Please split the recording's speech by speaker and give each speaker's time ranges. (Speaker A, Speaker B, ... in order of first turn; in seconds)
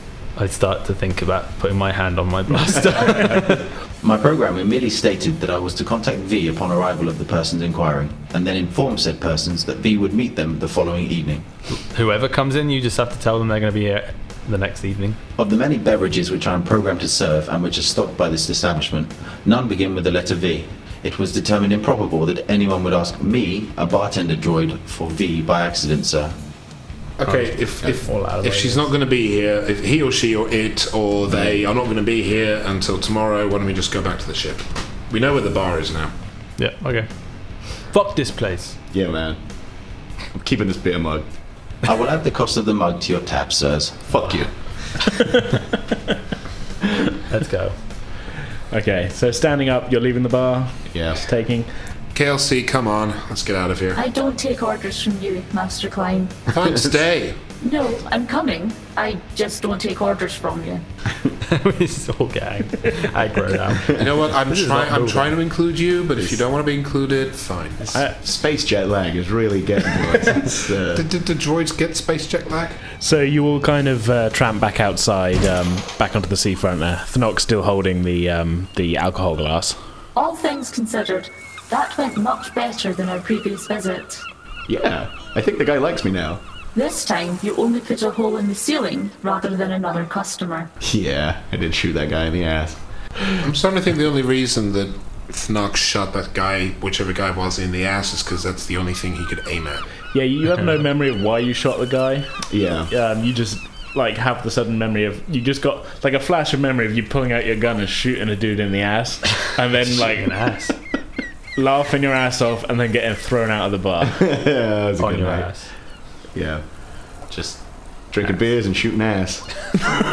Speaker A: 0.4-3.7, 11.8-15.2, 27.2-28.9, 36.6-38.8, 47.3-47.8, 61.5-65.3, 109.9-110.8, 115.0-115.7
Speaker B: 4.0-11.5, 15.4-26.4, 41.9-44.1
Speaker C: 27.2-36.1, 52.1-54.0, 56.5-57.4, 64.0-67.9, 70.9-72.8, 93.4-99.9
Speaker D: 31.3-31.6, 38.9-39.4, 40.3-41.3, 44.1-45.0, 50.9-51.2, 68.1-71.0, 84.7-86.4, 90.8-92.8, 102.5-102.9, 114.0-115.5, 116.3-119.7
Speaker E: 48.7-51.7, 73.0-79.8, 100.1-102.3, 102.9-110.4, 111.6-114.2
Speaker F: 54.0-56.5, 57.6-60.8, 80.1-84.2, 86.8-90.7